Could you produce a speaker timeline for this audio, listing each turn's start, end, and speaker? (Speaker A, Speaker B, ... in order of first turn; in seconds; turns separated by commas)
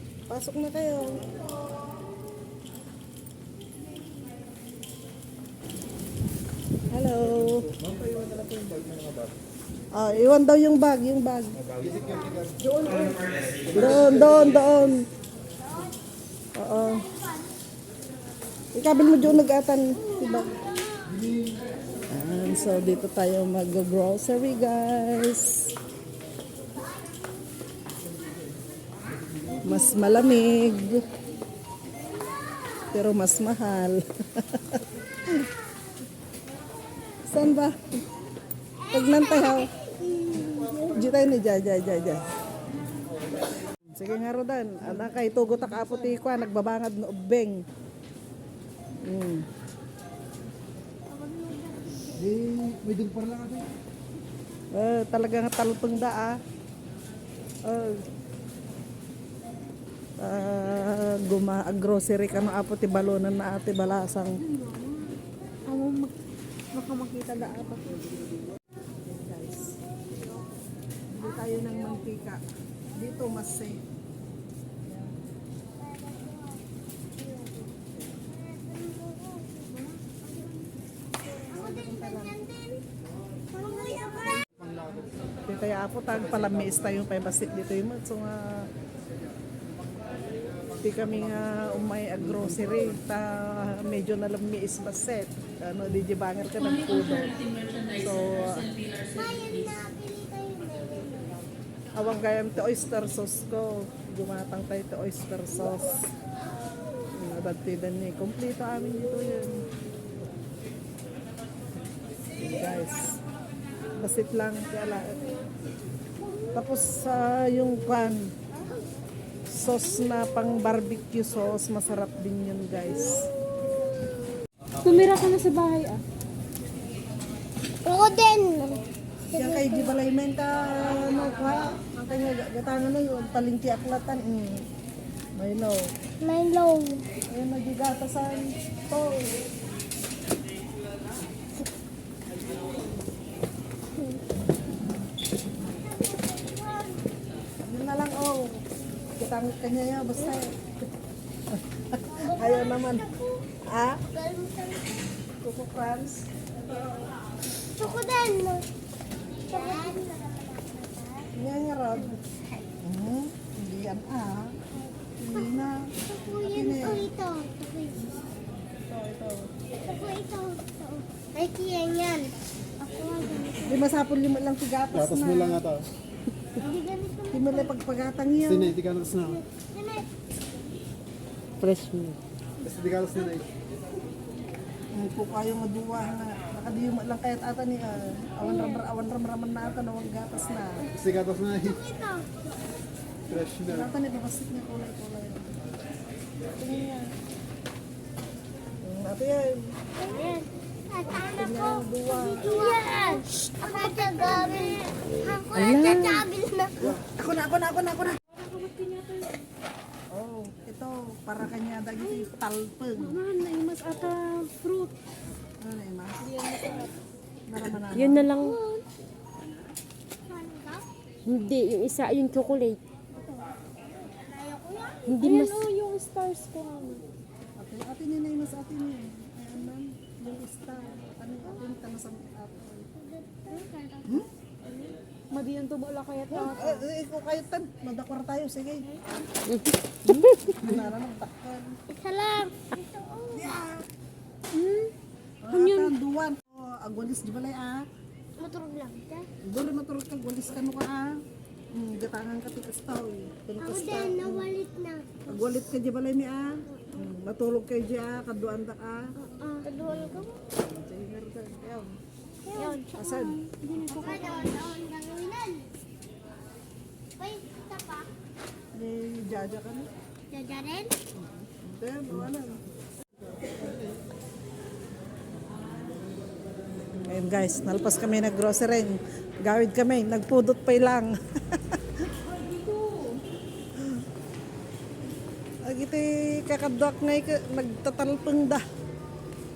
Speaker A: 0.3-1.3, Speaker A: 6.9-7.7, Speaker B: 7.8-9.1, Speaker A: 9.9-11.6, Speaker B: 11.8-12.7, Speaker C: 12.0-12.4, Speaker A: 13.7-15.0, Speaker A: 16.6-17.1, Speaker A: 18.7-20.5, Speaker C: 20.1-21.2, Speaker A: 22.1-25.7, Speaker A: 29.6-31.0, Speaker A: 32.9-35.5, Speaker A: 37.3-37.8, Speaker C: 38.8-41.0, Speaker A: 38.9-39.7, Speaker A: 40.8-42.2, Speaker A: 43.9-47.6, Speaker A: 49.0-49.4, Speaker C: 51.1-52.3, Speaker B: 52.2-53.6, Speaker A: 54.7-56.4, Speaker A: 57.6-58.0, Speaker A: 60.2-64.4, Speaker D: 64.4-65.1, Speaker D: 65.7-66.1, Speaker D: 66.7-68.0, Speaker A: 69.0-69.8, Speaker A: 71.1-72.4, Speaker A: 73.0-73.8, Speaker A: 74.8-75.1, Speaker C: 76.0-76.5, Speaker C: 78.3-79.7, Speaker C: 81.5-82.8, Speaker A: 81.5-82.3, Speaker C: 83.5-84.4, Speaker A: 85.5-88.7, Speaker A: 90.8-98.8, Speaker C: 99.0-101.4, Speaker A: 101.9-106.0, Speaker A: 107.1-109.6, Speaker A: 112.4-113.2, Speaker A: 114.0-115.3, Speaker A: 116.5-118.3, Speaker A: 119.5-123.2, Speaker D: 124.8-126.0, Speaker C: 127.8-129.9, Speaker A: 129.3-134.6, Speaker A: 135.3-135.9, Speaker C: 136.2-137.1, Speaker A: 137.3-139.4, Speaker C: 145.7-147.0, Speaker A: 147.6-148.6, Speaker A: 149.2-150.6, Speaker A: 151.5-153.1, Speaker C: 152.1-153.4, Speaker A: 153.7-154.0, Speaker C: 154.1-155.0, Speaker A: 155.4-156.3, Speaker C: 157.8-158.6, Speaker C: 159.5-161.3, Speaker A: 161.3-162.2, Speaker C: 162.1-162.7, Speaker A: 162.8-164.5, Speaker C: 164.8-168.0, Speaker A: 165.2-165.9, Speaker A: 166.4-167.1, Speaker A: 168.9-169.4, Speaker C: 169.8-173.8, Speaker A: 173.6-175.6, Speaker B: 175.2-175.8, Speaker C: 176.6-177.8, Speaker A: 177.3-178.8, Speaker B: 178.6-179.4, Speaker C: 179.4-180.1, Speaker D: 181.6-182.2, Speaker B: 182.6-183.4, Speaker A: 184.9-190.8, Speaker C: 188.4-188.8, Speaker B: 191.0-191.6, Speaker C: 191.5-192.3, Speaker A: 193.6-195.6, Speaker A: 196.6-197.0, Speaker A: 198.8-199.6, Speaker C: 200.0-206.8, Speaker A: 201.1-202.5, Speaker D: 202.8-203.7, Speaker D: 205.5-206.2, Speaker A: 206.8-208.2, Speaker D: 208.3-209.4, Speaker A: 210.1-213.2, Speaker D: 213.0-214.9, Speaker A: 215.6-216.3, Speaker D: 216.2-216.9, Speaker A: 217.5-218.2, Speaker D: 217.9-218.8, Speaker C: 220.2-220.8, Speaker D: 221.2-222.8, Speaker A: 223.1-223.4, Speaker C: 224.1-225.6, Speaker D: 225.1-227.0, Speaker A: 227.6-232.9, Speaker C: 233.1-234.2, Speaker D: 234.8-236.9, Speaker A: 236.3-238.9, Speaker D: 239.5-240.7, Speaker A: 240.4-241.7, Speaker C: 241.9-243.6, Speaker A: 243.3-243.8, Speaker D: 244.5-244.9, Speaker A: 245.4-247.8, Speaker D: 245.5-245.9, Speaker C: 248.4-249.3, Speaker A: 249.4-251.1, Speaker A: 251.7-254.5, Speaker C: 253.6-255.3, Speaker A: 255.3-259.0, Speaker C: 259.2-260.4, Speaker A: 259.8-261.9, Speaker C: 262.5-265.7, Speaker A: 262.9-263.4, Speaker D: 263.5-264.6, Speaker C: 267.2-268.1, Speaker A: 268.7-269.9, Speaker C: 270.3-270.9, Speaker A: 271.2-272.6, Speaker A: 277.1-282.1, Speaker D: 282.3-283.1, Speaker A: 285.6-288.6